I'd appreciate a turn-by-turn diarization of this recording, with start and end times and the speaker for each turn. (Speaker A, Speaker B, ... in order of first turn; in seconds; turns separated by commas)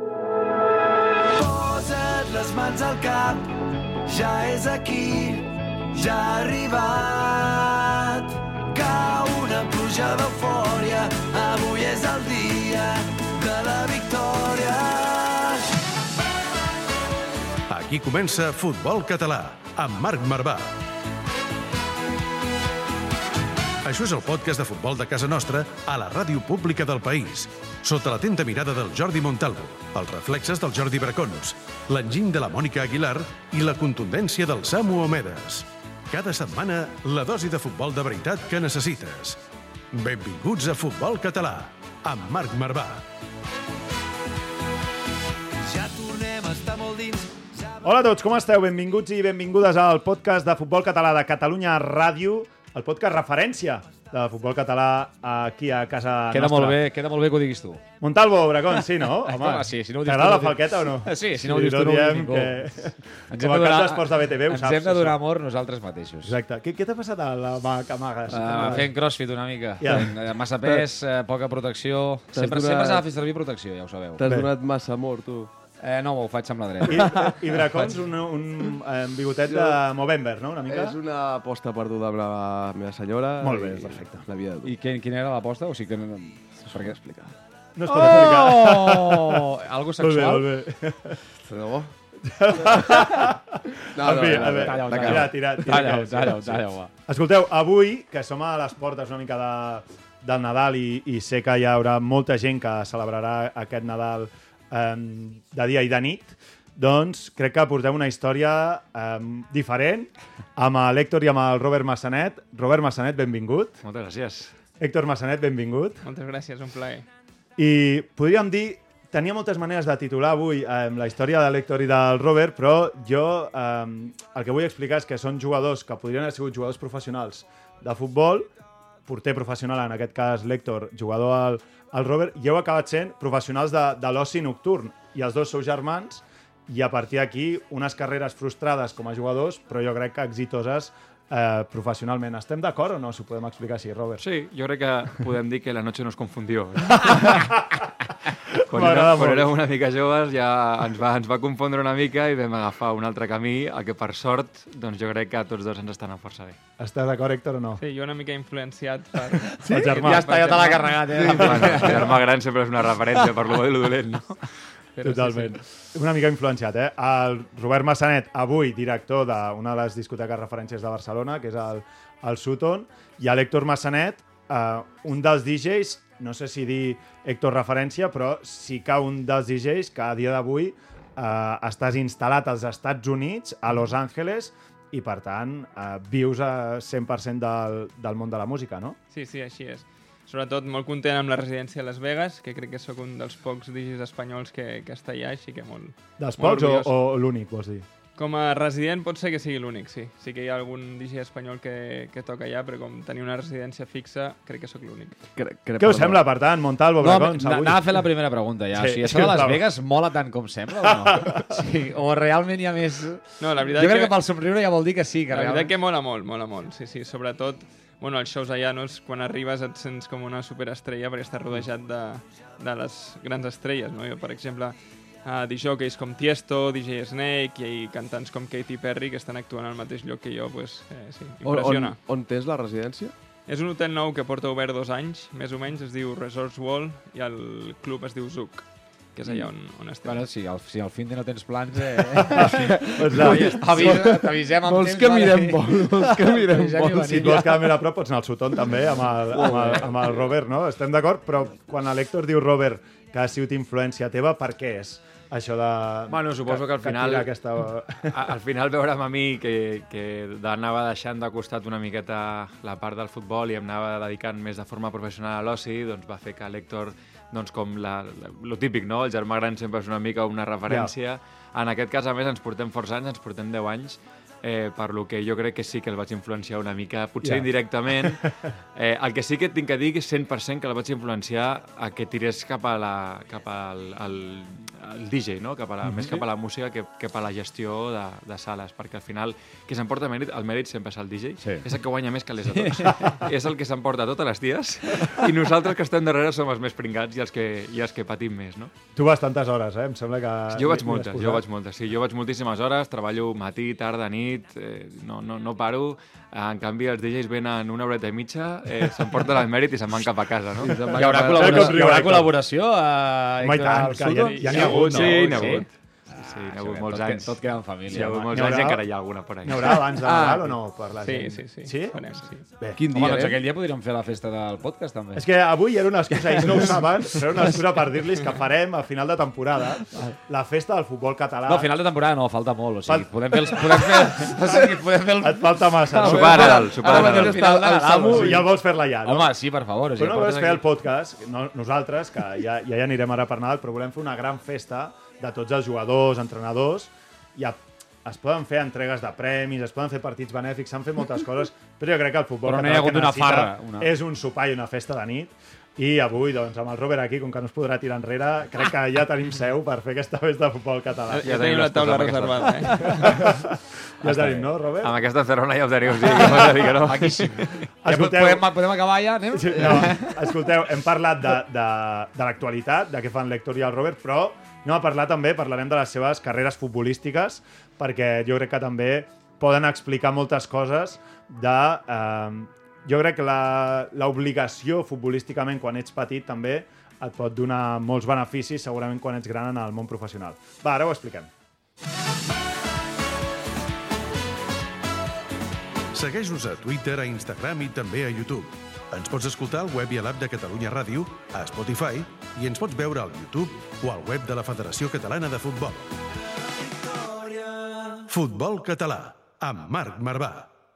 Speaker A: 1.4-15.7, Speaker B: 17.7-20.8, Speaker B: 23.8-39.4, Speaker B: 39.9-43.0, Speaker A: 45.6-47.8, Speaker C: 47.8-56.8, Speaker D: 56.3-57.8, Speaker C: 58.0-65.2, Speaker D: 59.0-62.8, Speaker D: 63.3-66.3, Speaker C: 66.2-68.9, Speaker D: 68.3-74.2, Speaker C: 69.8-70.2, Speaker E: 72.3-73.0, Speaker E: 74.2-75.5, Speaker D: 75.8-77.6, Speaker C: 76.9-81.0, Speaker E: 79.5-79.8, Speaker E: 80.7-84.7, Speaker C: 83.4-84.3, Speaker D: 84.6-87.0, Speaker E: 86.7-87.3, Speaker C: 87.8-91.2, Speaker D: 87.9-90.5, Speaker E: 91.4-91.9, Speaker C: 92.2-113.7, Speaker E: 94.0-95.3, Speaker D: 94.3-96.9, Speaker F: 113.8-114.5, Speaker C: 114.8-116.0, Speaker G: 116.0-117.1, Speaker C: 117.6-128.5, Speaker C: 129.1-144.2, Speaker F: 144.2-147.7, Speaker C: 147.0-147.6, Speaker F: 148.7-156.6, Speaker C: 148.7-149.5, Speaker C: 156.8-157.8, Speaker G: 157.8-161.2, Speaker C: 159.6-160.7, Speaker D: 159.9-162.2, Speaker F: 161.3-164.5, Speaker C: 161.4-161.9, Speaker G: 165.0-165.6, Speaker C: 165.0-189.0, Speaker G: 189.1-196.9, Speaker C: 196.2-197.9, Speaker G: 198.2-205.2, Speaker E: 205.4-206.3, Speaker C: 205.8-208.1, Speaker D: 207.0-215.7, Speaker C: 208.7-209.6, Speaker C: 211.0-211.6, Speaker G: 213.4-214.2, Speaker G: 215.3-232.0, Speaker E: 231.4-233.1, Speaker G: 233.5-240.2, Speaker D: 240.1-247.8, Speaker C: 242.3-243.6, Speaker F: 243.1-244.0, Speaker E: 243.8-247.4, Speaker C: 247.0-258.2, Speaker E: 249.3-249.8, Speaker D: 249.4-249.8, Speaker F: 256.1-257.3, Speaker F: 258.0-298.7, Speaker D: 285.9-286.2, Speaker D: 292.5-293.1, Speaker C: 298.9-301.4, Speaker F: 300.5-310.9, Speaker E: 310.6-311.9, Speaker D: 310.9-318.4, Speaker C: 311.0-312.3, Speaker C: 313.4-315.4, Speaker G: 314.1-315.7, Speaker F: 314.6-319.9, Speaker C: 317.9-318.8, Speaker C: 319.4-322.8, Speaker D: 319.6-320.6, Speaker G: 321.0-322.4, Speaker E: 322.8-323.4, Speaker D: 322.9-325.3, Speaker C: 325.1-331.7, Speaker D: 326.2-327.6, Speaker D: 331.5-340.6, Speaker C: 332.9-334.6, Speaker C: 335.2-336.7, Speaker F: 335.9-337.4, Speaker E: 336.2-338.5, Speaker C: 338.1-339.3, Speaker C: 339.9-361.3, Speaker D: 352.4-353.9, Speaker G: 361.1-363.1, Speaker F: 361.2-363.0, Speaker C: 363.0-365.0, Speaker D: 364.0-364.5, Speaker F: 364.8-367.7, Speaker D: 366.0-370.4, Speaker C: 367.8-368.5, Speaker C: 369.3-391.3, Speaker B: 395.9-405.9, Speaker A: 406.3-408.1, Speaker B: 408.1-410.5